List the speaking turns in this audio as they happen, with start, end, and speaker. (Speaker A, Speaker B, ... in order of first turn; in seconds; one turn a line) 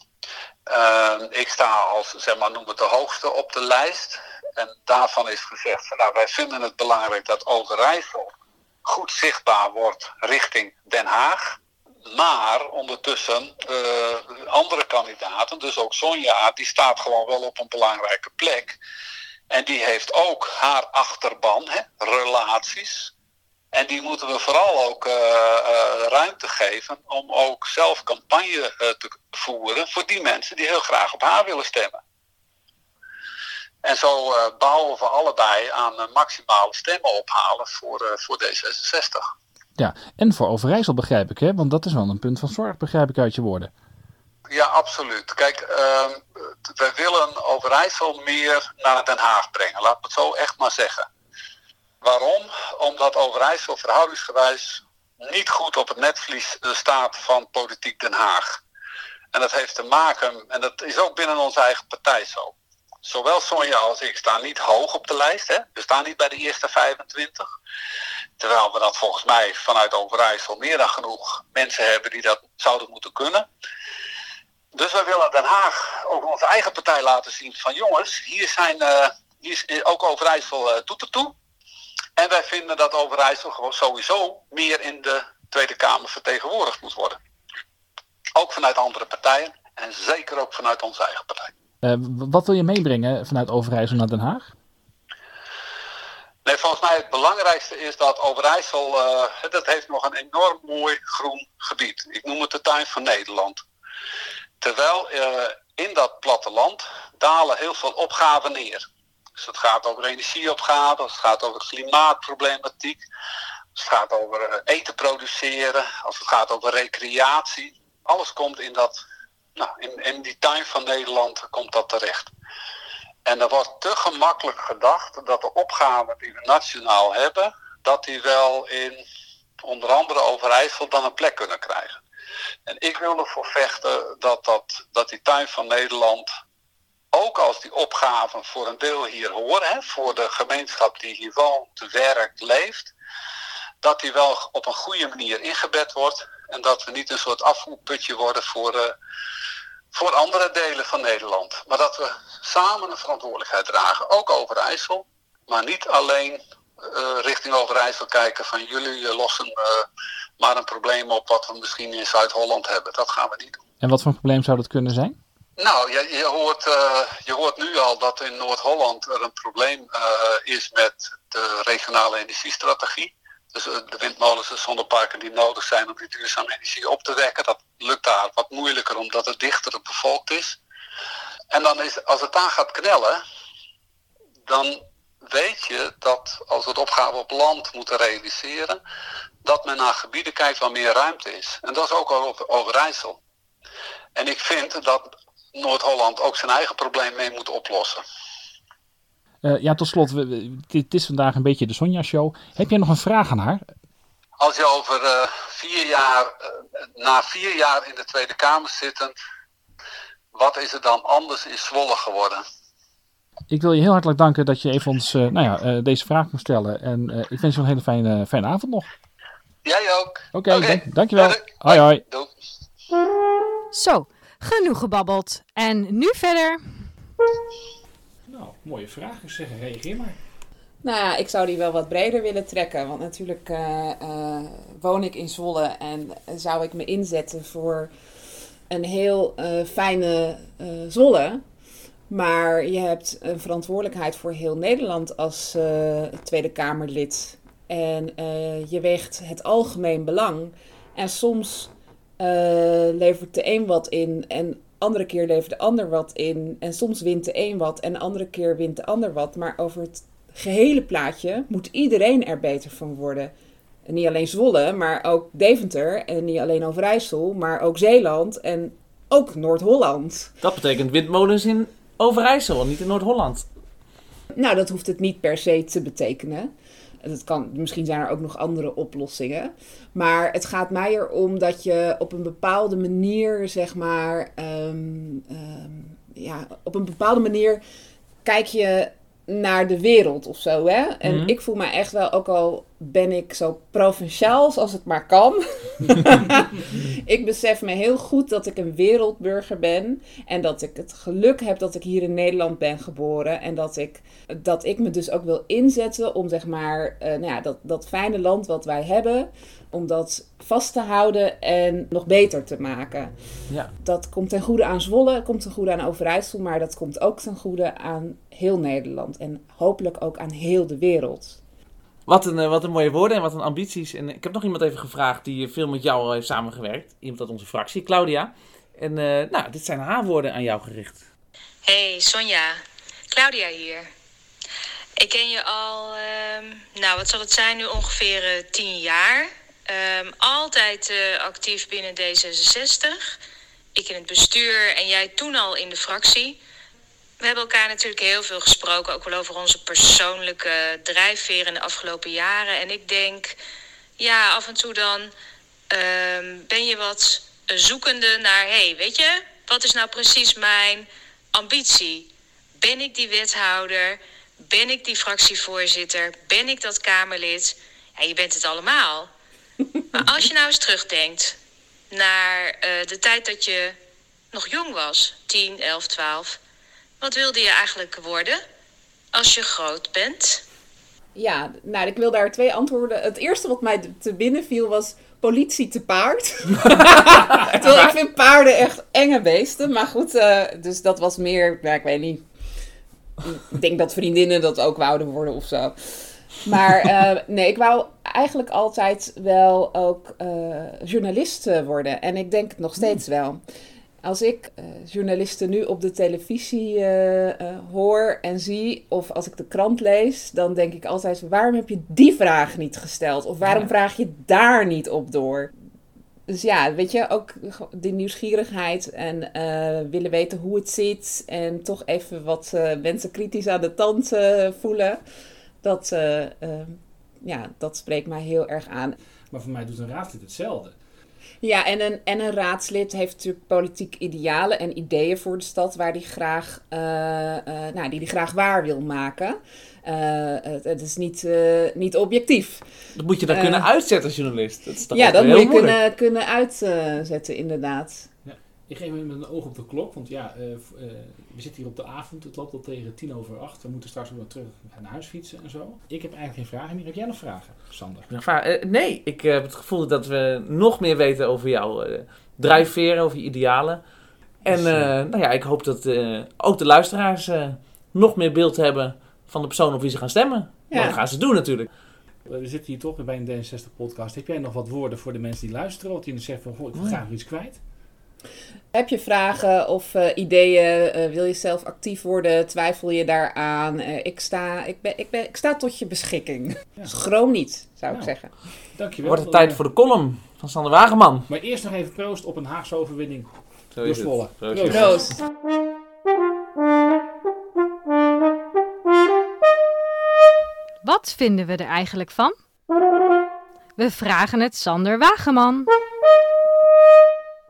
Speaker A: 0.7-8.3
Speaker A: 8.8-18.8
Speaker A: 19.5-23.1
Speaker A: 23.7-32.0
Speaker A: 33.8-39.2
Speaker B: 39.8-43.7
Speaker A: 44.5-51.1
Speaker A: 52.0-58.6
Speaker A: 59.3-67.5
Speaker A: 68.4-73.5
Speaker A: 74.7-81.3
Speaker A: 82.2-87.2
Speaker A: 88.3-91.5
Speaker B: 91.8-94.5
Speaker A: 96.4-103.6
Speaker A: 104.6-113.0
Speaker A: 113.7-119.0
Speaker A: 119.5-122.3
Speaker A: 123.2-129.0
Speaker A: 129.6-132.0
Speaker A: 132.7-136.3
Speaker A: 137.1-142.9
Speaker A: 143.8-148.9
Speaker A: 149.9-159.9
Speaker A: 160.4-163.6
Speaker B: 163.8-165.2
Speaker A: 165.6-180.6
Speaker A: 181.5-183.2
Speaker A: 184.4-188.8
Speaker A: 189.4-193.2
Speaker A: 194.1-198.0
Speaker B: 199.4-203.6
Speaker A: 204.4-209.1
Speaker A: 210.3-212.4
Speaker B: 213.5-218.9
Speaker A: 219.6-222.3
Speaker B: 220.3-222.0
Speaker C: 223.7-226.8
Speaker B: 228.3-230.2
Speaker D: 230.8-237.9
Speaker D: 238.7-241.4
Speaker D: 242.1-263.3
Speaker D: 263.9-270.3
Speaker E: 270.4-273.5
Speaker D: 274.3-276.5
Speaker D: 277.0-287.6
Speaker D: 288.2-313.1
Speaker E: 291.0-291.3
Speaker D: 313.8-321.4
Speaker E: 322.1-331.0
Speaker F: 331.6-333.9
Speaker F: 335.0-343.1
Speaker F: 343.7-346.4
Speaker F: 347.2-353.4
Speaker F: 354.0-355.1
Speaker F: 355.7-369.1
Speaker F: 369.9-371.4
Speaker F: 371.9-373.8
Speaker F: 374.3-376.4
Speaker F: 377.0-378.4
Speaker F: 379.1-380.4
Speaker D: 381.1-392.2
Speaker D: 393.2-403.4
Speaker D: 404.0-415.5
Speaker D: 416.3-425.0
Speaker D: 425.6-428.9
Speaker B: 429.3-430.7
Speaker D: 431.4-442.6
Speaker E: 442.9-445.8
Speaker D: 443.3-443.6
Speaker D: 444.9-448.1
Speaker B: 448.2-458.1
Speaker E: 458.1-463.8
Speaker E: 464.4-471.7
Speaker B: 464.5-464.9
Speaker D: 470.7-471.0
Speaker B: 472.2-477.6
Speaker D: 478.7-488.3
Speaker B: 488.6-489.6
Speaker E: 489.0-491.3
Speaker B: 491.3-495.1
Speaker E: 493.7-495.1
Speaker D: 494.8-495.1
Speaker C: 500.8-502.4
Speaker C: 503.8-505.7